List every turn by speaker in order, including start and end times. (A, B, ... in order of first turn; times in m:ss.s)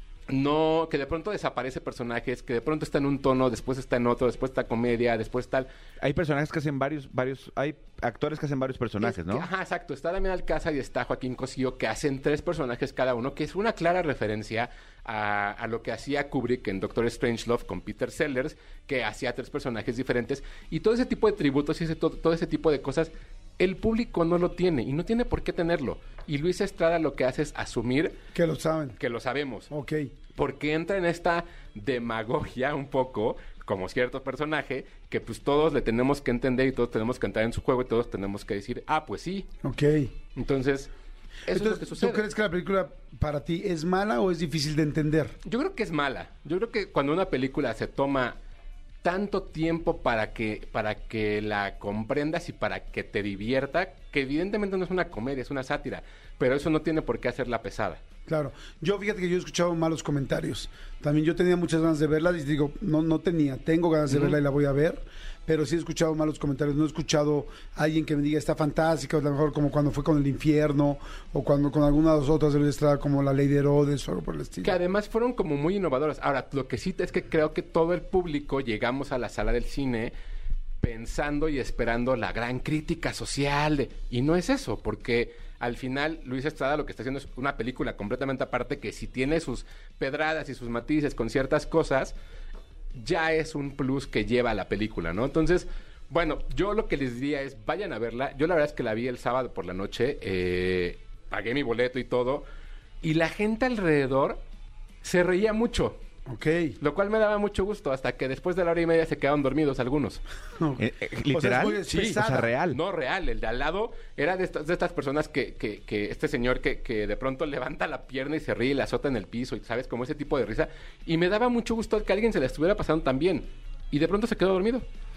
0:00.3-0:05.7 A
0:06.0-0:09.5 B
0:09.0-0:28.2 A
0:28.3-0:29.0 C
0:29.0-0:29.7 A
0:29.7-0:30.1 C
0:30.3-0:39.5 A
0:39.6-0:40.1 C
0:40.3-0:40.9 A
0:41.4-0:42.2 A
0:41.5-0:45.3 C
0:45.4-0:48.4 A
0:49.0-0:58.0 A
0:58.3-1:14.8 C
1:04.1-1:04.4 A
1:14.6-1:20.1 A
1:20.8-1:32.2 A
1:32.9-1:42.4 A
1:43.0-1:44.4 A
1:45.0-1:46.0 A
1:46.3-1:46.8 C
1:46.8-1:50.2 A
1:50.6-1:52.5 C
1:50.8-1:52.8 B
1:51.9-2:04.8 A